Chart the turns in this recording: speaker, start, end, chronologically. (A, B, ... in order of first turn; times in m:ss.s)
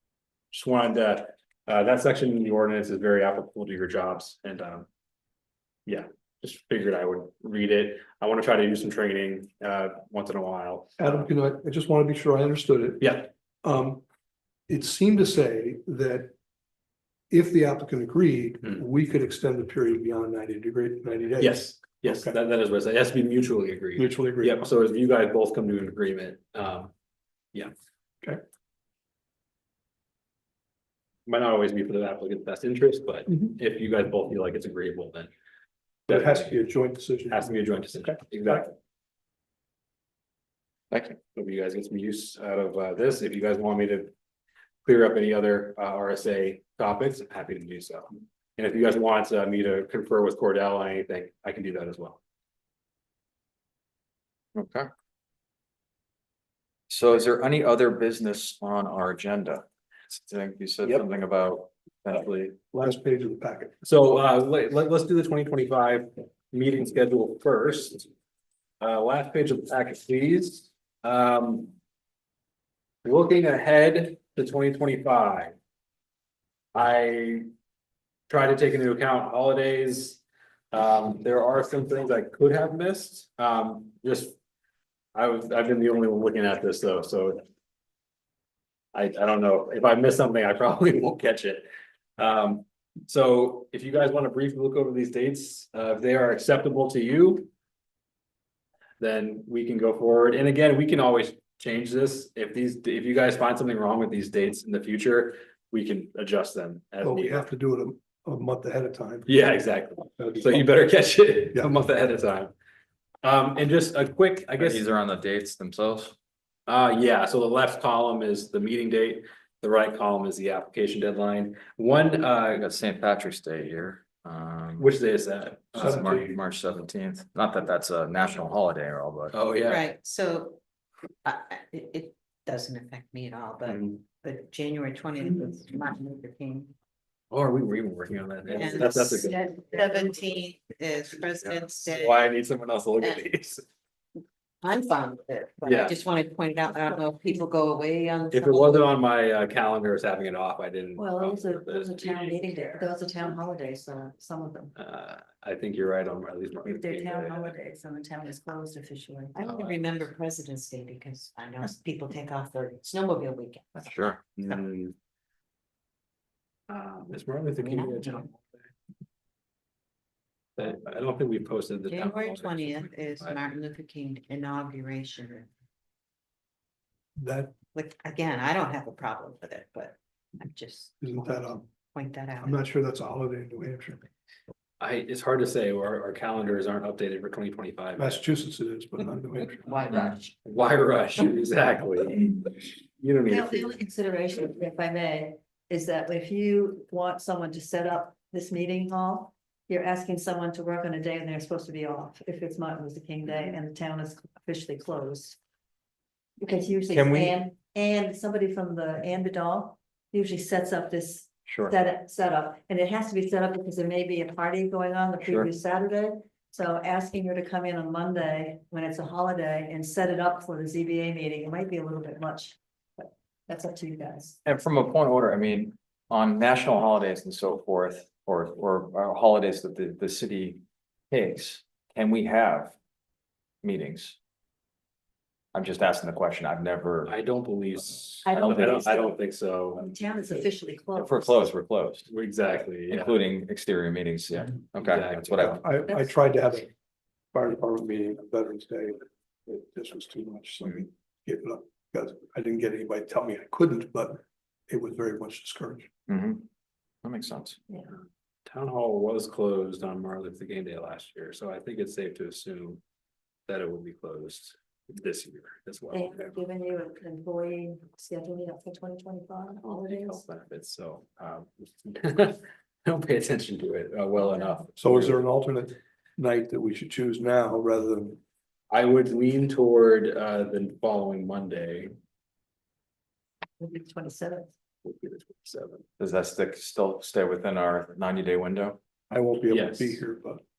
0:00.5-0:04.9 A
0:05.8-0:11.3 A
0:11.0-0:14.0 B
0:13.0-0:13.3 A
0:14.7-0:16.3 B
0:17.3-0:22.4 B
0:21.4-0:26.9 A
0:24.0-0:24.7 B
0:31.2-0:35.3 A
0:36.1-0:36.6 A
0:36.1-0:38.7 B
0:37.3-0:38.7 A
0:40.9-0:41.2 C
0:41.3-0:44.1 A
0:44.8-0:52.2 A
0:54.5-0:54.9 C
0:56.9-1:02.6 C
1:02.7-1:03.7 B
1:03.8-1:08.1 A
1:08.8-1:11.7 A
1:13.0-1:15.5 A
1:16.7-1:17.5 A
1:18.3-1:20.2 A
1:20.7-1:24.4 A
1:25.1-1:27.4 A
1:28.9-1:31.7 A
1:32.2-1:37.5 A
1:39.0-1:47.4 A
1:47.0-1:49.3 B
1:49.2-1:52.5 A
1:50.2-1:50.7 B
1:53.2-1:54.8 A
1:54.6-1:56.1 C
1:56.7-2:02.6 A
2:02.5-2:04.9 C
2:04.8-2:06.3 A
2:05.7-2:09.4 C
2:05.8-2:06.3 B
2:09.3-2:09.9 A
2:09.7-2:10.6 D
2:11.2-2:16.7 D
2:13.6-2:14.0 A
2:17.3-2:19.6 A
2:18.5-2:22.4 D
2:21.4-2:23.6 A
2:24.6-2:28.9 D
2:25.6-2:26.0 A
2:28.3-2:32.8 A
2:31.0-2:34.7 E
2:34.8-2:37.5 A
2:36.6-2:39.4 E
2:39.3-2:44.6 D
2:39.4-2:40.1 A
2:43.8-2:44.2 C
2:44.4-2:44.9 A
2:46.7-2:48.6 A
2:47.6-2:48.3 D
2:50.6-2:53.4 A
2:51.9-2:55.5 D
2:57.2-2:57.5 B
2:57.7-3:00.9 D
3:01.0-3:01.7 B
3:01.9-3:02.6 D
3:02.4-3:04.1 B
3:04.8-3:08.2 A
3:08.0-3:09.8 B
3:09.6-3:10.3 D
3:09.9-3:13.8 A
3:13.3-3:25.4 E
3:26.4-3:44.4 E
3:26.9-3:27.4 C
3:31.4-3:31.7 C
3:44.4-3:52.8 C
3:53.6-3:54.2 C
3:55.5-3:57.1 C
3:57.0-3:59.8 A
3:58.2-4:01.4 E
3:58.4-3:58.9 C
4:01.0-4:02.1 C
4:02.1-4:03.1 A
4:02.9-4:05.6 C
4:04.3-4:05.6 A
4:05.4-4:06.7 B
4:05.8-4:06.2 E
4:07.3-4:15.9 B
4:16.1-4:16.4 C
4:17.0-4:17.6 C
4:18.4-4:22.8 A
4:23.5-4:26.4 A
4:25.9-4:30.2 E
4:29.6-4:35.2 A
4:34.8-4:38.2 B
4:38.7-4:41.9 A
4:43.6-4:44.5 E
4:44.8-4:45.8 A
4:46.0-4:48.8 C
4:49.1-4:50.4 B
4:49.5-4:50.0 A